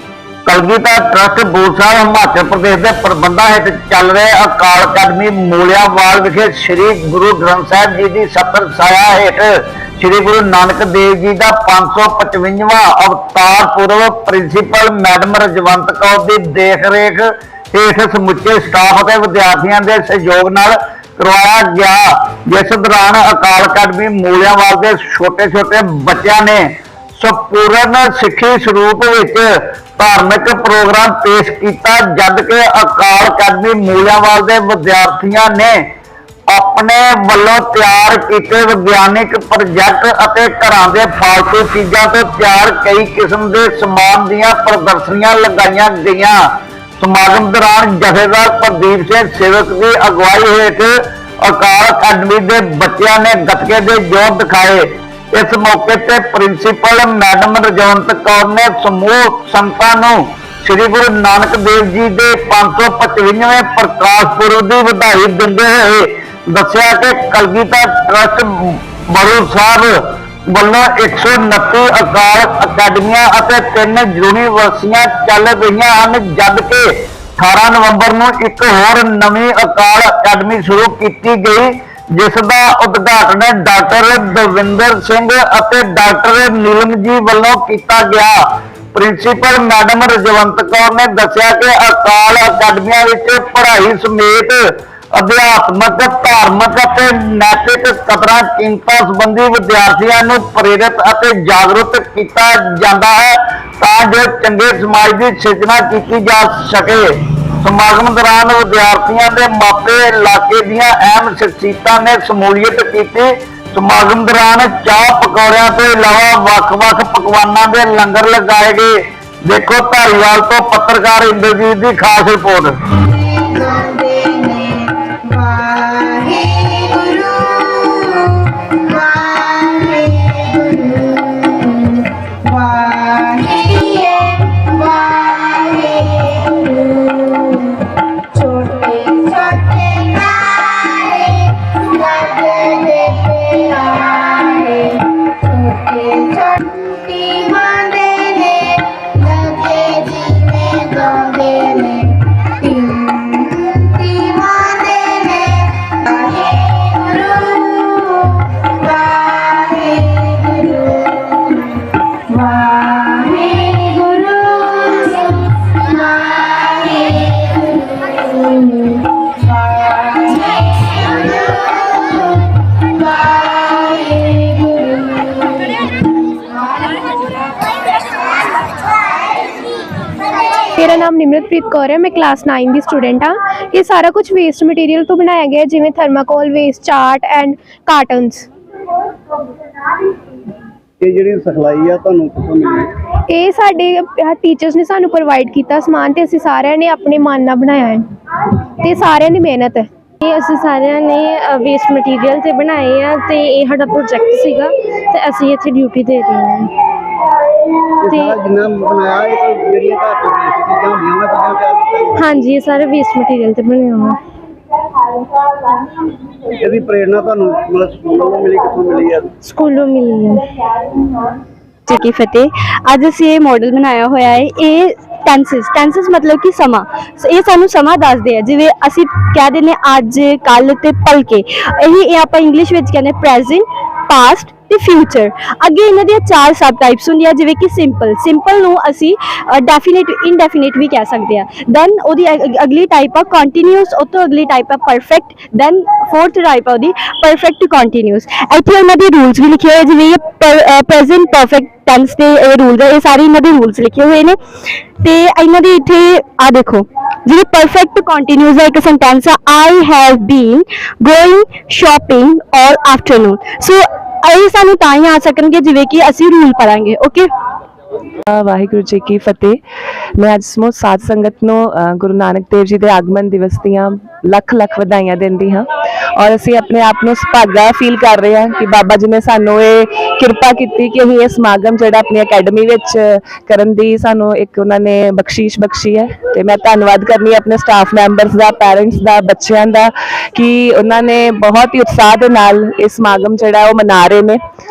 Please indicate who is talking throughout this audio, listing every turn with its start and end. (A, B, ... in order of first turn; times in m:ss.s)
0:00.5-0:29.5 A
0:30.0-0:35.8 A
0:36.5-0:46.4 A
0:47.0-1:10.0 A
1:10.5-1:28.4 A
1:28.9-1:34.6 A
1:35.2-1:47.1 A
1:47.6-2:02.7 A
2:22.6-2:23.9 B
2:30.1-2:31.0 B
2:43.1-2:45.3 B
2:47.0-2:47.3 B
3:00.8-3:08.5 C
3:11.0-3:12.9 D
3:13.3-3:18.0 C
3:18.8-3:19.9 C
3:20.2-3:26.7 B
3:28.0-3:32.3 D
3:32.2-3:34.2 B
3:36.5-3:39.3 D
3:39.4-3:40.5 B
3:41.9-4:14.4 E
4:15.0-4:27.3 E
4:28.3-4:29.6 F
4:30.2-4:54.4 F